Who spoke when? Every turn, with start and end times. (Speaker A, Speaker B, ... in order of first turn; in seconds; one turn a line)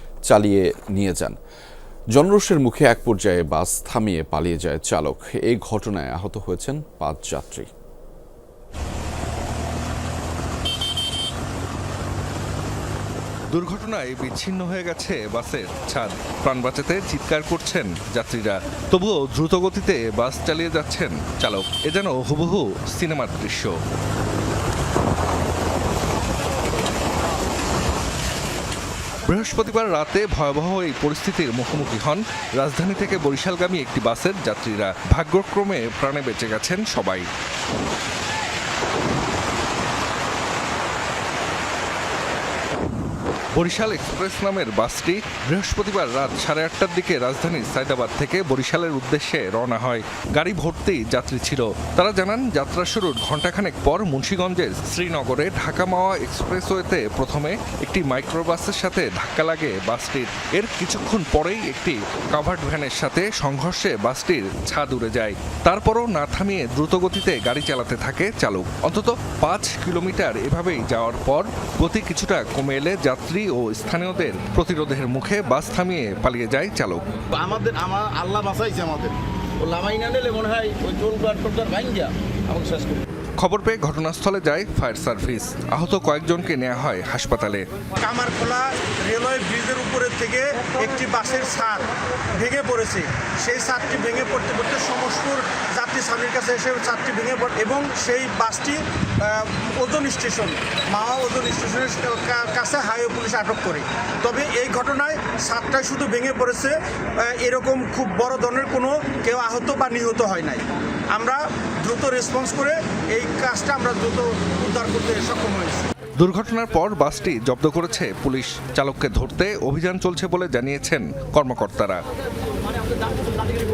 Speaker A: 0.3-1.4
Speaker A: 2.1-7.7
Speaker B: 13.5-23.8
Speaker B: 29.2-37.3
Speaker B: 43.5-77.1
Speaker C: 77.3-83.0
Speaker B: 83.4-87.6
Speaker D: 88.0-115.9
Speaker B: 116.2-122.0